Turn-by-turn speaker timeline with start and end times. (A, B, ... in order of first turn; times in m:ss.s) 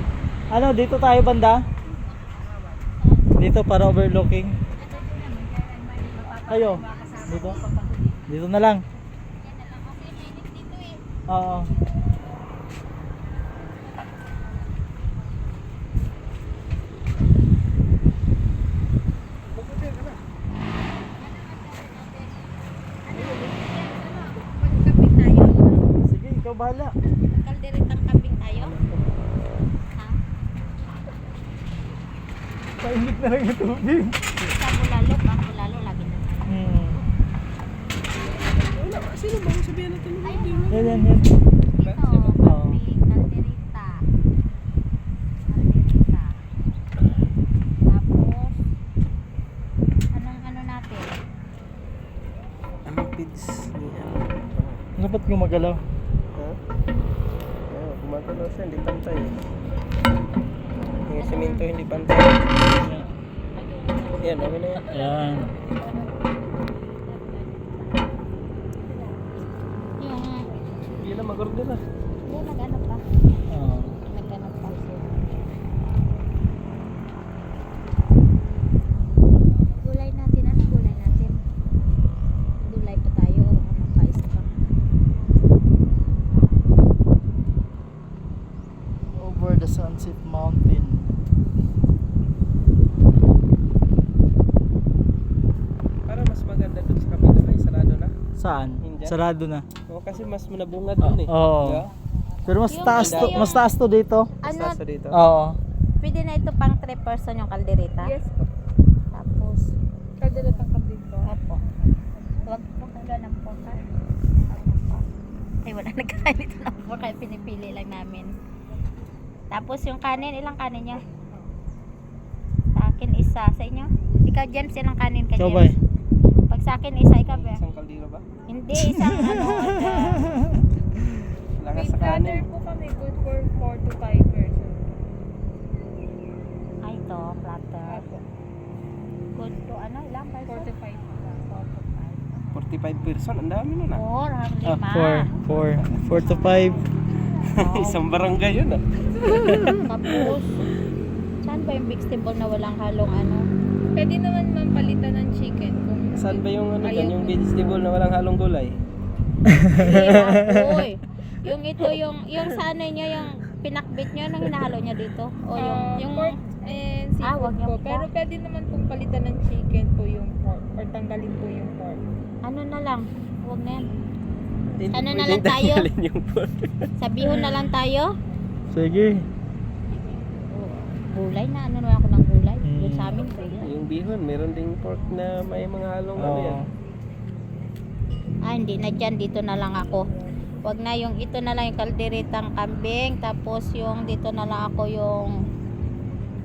0:00.5-0:01.6 A
0:01.8-0:02.4 B
0:02.9-0:03.3 B
0:03.4-0:04.6 A
0:04.7-0:07.8 B
0:06.5-0:07.6 A
0:08.3-0:08.8 A
0:09.4-0:11.0 B
0:11.3-0:11.7 A
0:19.4-0:20.2 C
0:21.0-0:22.4 B
0:23.0-0:25.9 B
0:23.1-0:23.5 C
0:26.0-0:26.9 A
0:27.3-0:28.7 B
0:28.6-0:29.2 C
0:29.9-0:30.2 B
0:32.8-0:34.2 A
0:34.4-0:36.6 B
0:36.5-0:37.0 A
0:38.2-0:41.0 C
0:40.2-0:44.0 B
0:40.7-0:41.3 A
0:41.8-0:42.3 C
0:42.4-0:42.8 A
0:45.5-0:46.4 B
0:47.8-0:48.6 B
0:50.1-0:51.1 B
0:52.8-0:54.8 C
0:55.0-0:55.8 A
0:57.7-0:59.4 C
1:01.1-1:02.6 C
1:01.2-1:01.6 B
1:02.8-1:03.0 A
1:03.6-1:08.0 B
1:04.2-1:05.1 C
1:04.9-1:05.5 A
1:10.0-1:10.5 B
1:11.0-1:11.8 C
1:12.2-1:13.0 B
1:13.5-1:13.9 A
1:14.0-1:15.1 B
1:19.8-1:21.4 B
1:22.6-1:24.5 B
1:29.2-1:31.1 A
1:36.1-1:38.1 C
1:38.4-1:39.6 A
1:38.8-1:39.2 C
1:39.9-1:41.9 C
1:41.0-1:41.9 A
1:42.4-1:44.4 A
1:42.7-1:43.7 B
1:42.9-1:43.5 C
1:44.4-1:44.8 B
1:44.4-1:45.2 C
1:45.1-1:45.6 A
1:46.0-1:48.1 B
1:48.0-1:48.5 D
1:49.1-1:49.7 B
1:50.2-1:51.3 D
1:51.2-1:51.6 B
1:52.4-1:55.0 B
1:55.6-1:58.3 B
1:59.5-2:01.0 B
2:02.7-2:05.7 B
2:05.4-2:05.8 A
2:06.5-2:07.6 B
2:07.2-2:08.2 C
2:08.5-2:10.5 B
2:08.8-2:10.6 A
2:11.6-2:12.5 C
2:11.7-2:14.9 D
2:16.8-2:18.0 B
2:17.9-2:18.2 D
2:19.3-2:20.7 B
2:20.5-2:21.6 D
2:21.5-2:22.4 B
2:22.5-2:24.0 C
2:23.9-2:26.7 B
2:24.8-2:26.8 A
2:27.4-2:29.8 C
2:27.4-2:28.0 B
2:29.8-2:30.7 B
2:31.4-2:33.4 B
2:33.9-2:37.8 D
2:36.1-2:38.8 C
2:39.5-2:40.8 A
2:39.7-2:46.4 B
2:45.6-2:52.0 D
2:47.2-2:48.1 B
2:52.4-2:53.9 B
2:54.8-2:56.9 C
2:54.9-2:55.9 B
2:57.0-2:58.1 B
2:58.7-2:59.2 A
3:00.5-3:03.8 B
3:02.6-3:03.2 A
3:03.6-3:06.6 C
3:06.2-3:06.7 A
3:08.5-3:10.1 B
3:10.6-3:15.3 B